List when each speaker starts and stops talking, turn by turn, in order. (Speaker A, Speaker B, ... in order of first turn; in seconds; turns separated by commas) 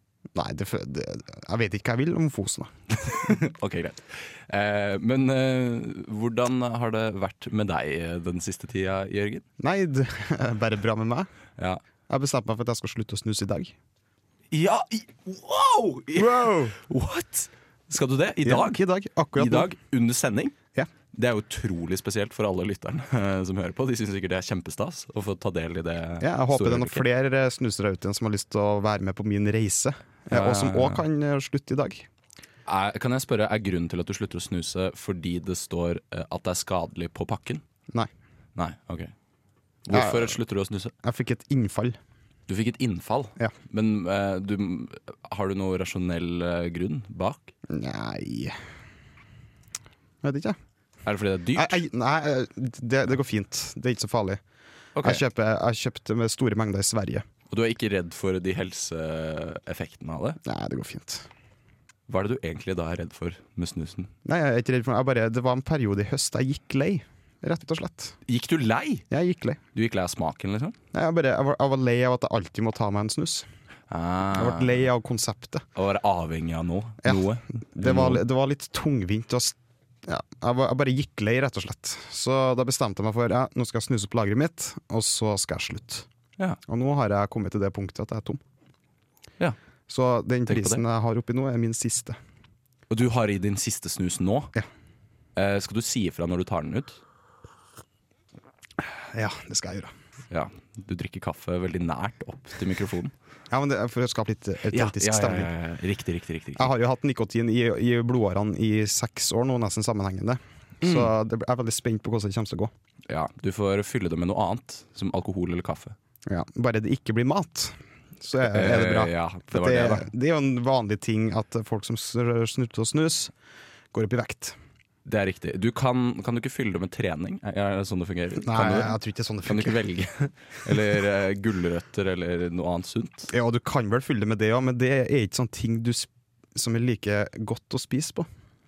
Speaker A: 0.3-3.4, Speaker B: 3.0-9.4, Speaker A: 9.6-11.3, Speaker A: 12.1-13.8, Speaker B: 14.5-18.8, Speaker A: 16.1-16.8, Speaker A: 18.4-19.7, Speaker B: 19.4-20.6, Speaker B: 21.1-27.1, Speaker A: 26.2-32.1, Speaker B: 30.3-31.0, Speaker B: 32.7-37.6, Speaker B: 38.6-39.1, Speaker B: 39.9-40.9, Speaker A: 39.9-40.4, Speaker A: 41.0-42.0, Speaker B: 42.5-47.5, Speaker A: 47.7-48.6, Speaker A: 50.2-50.6, Speaker B: 51.0-51.8, Speaker A: 51.6-54.4, Speaker B: 55.0-55.2, Speaker A: 55.0-57.2, Speaker B: 57.5-60.4, Speaker A: 60.5-61.3, Speaker B: 62.1-64.1, Speaker A: 64.2-68.2, Speaker B: 68.3-69.0, Speaker A: 69.1-69.6, Speaker B: 69.7-70.8, Speaker A: 70.9-73.5, Speaker B: 73.9-74.7, Speaker A: 74.3-75.6, Speaker B: 75.8-78.2, Speaker A: 77.0-86.1, Speaker A: 86.7-88.4, Speaker A: 89.9-92.2, Speaker B: 90.5-90.8, Speaker B: 92.9-94.5, Speaker B: 95.4-97.0, Speaker A: 98.8-99.9, Speaker B: 100.3-103.1, Speaker A: 103.5-105.5, Speaker B: 104.7-106.7, Speaker A: 106.6-112.7, Speaker B: 110.8-111.1, Speaker B: 113.1-116.0, Speaker A: 116.3-123.3, Speaker B: 118.4-120.1, Speaker A: 123.9-124.6, Speaker B: 125.1-133.3, Speaker A: 128.4-129.8, Speaker A: 133.3-138.3